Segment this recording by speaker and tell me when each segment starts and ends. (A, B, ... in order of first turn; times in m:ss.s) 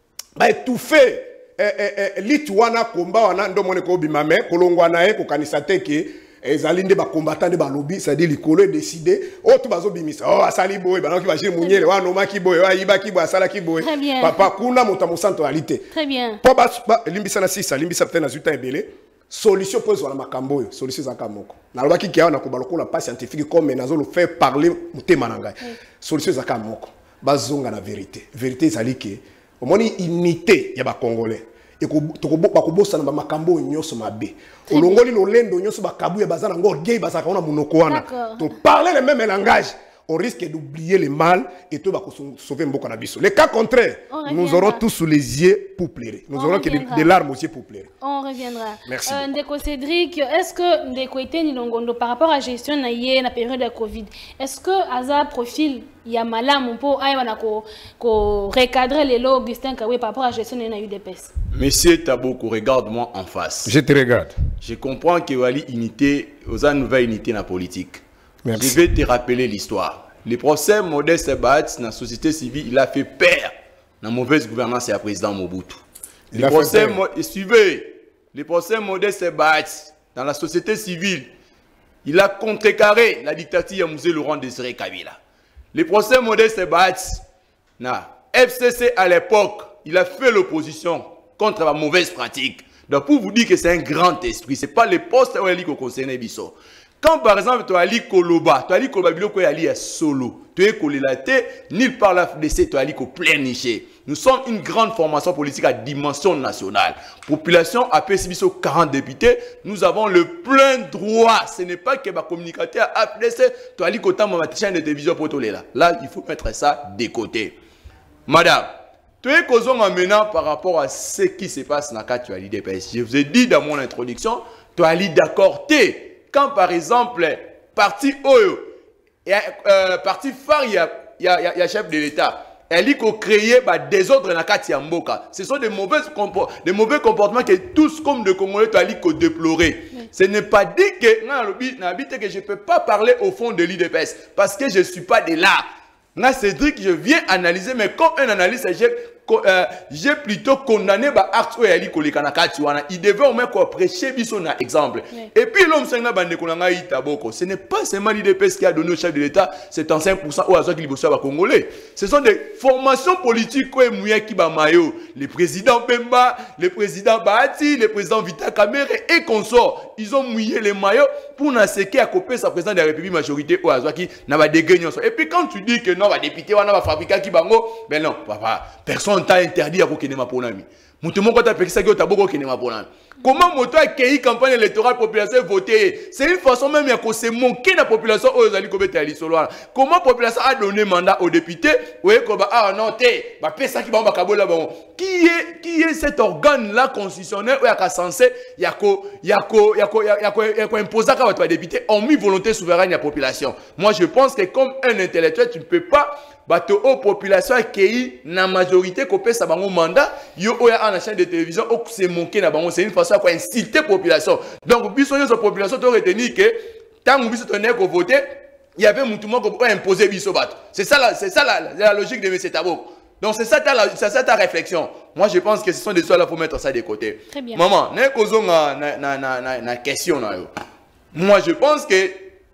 0:00.4-0:15.9 A
0:13.8-0:14.5 B
0:15.9-0:16.4 B
0:16.4-0:47.9 A
0:34.7-0:35.1 B
0:37.9-0:38.5 B
0:44.1-0:44.8 B
0:46.3-0:47.1 B
0:48.0-1:01.3 B
0:48.9-0:49.3 A
1:01.5-1:03.7 C
1:03.7-1:04.4 A
1:04.6-1:08.0 C
1:08.4-1:08.8 A
1:08.6-1:15.8 C
1:16.3-1:17.0 A
1:16.4-1:21.3 C
1:22.0-1:25.2 C
1:25.7-1:27.2 C
1:27.8-1:57.6 C
1:58.3-2:08.7 C
2:09.3-2:25.6 C
2:26.2-3:38.2 C
3:38.8-3:50.5 C
3:47.3-3:47.6 B
3:51.1-3:52.3 C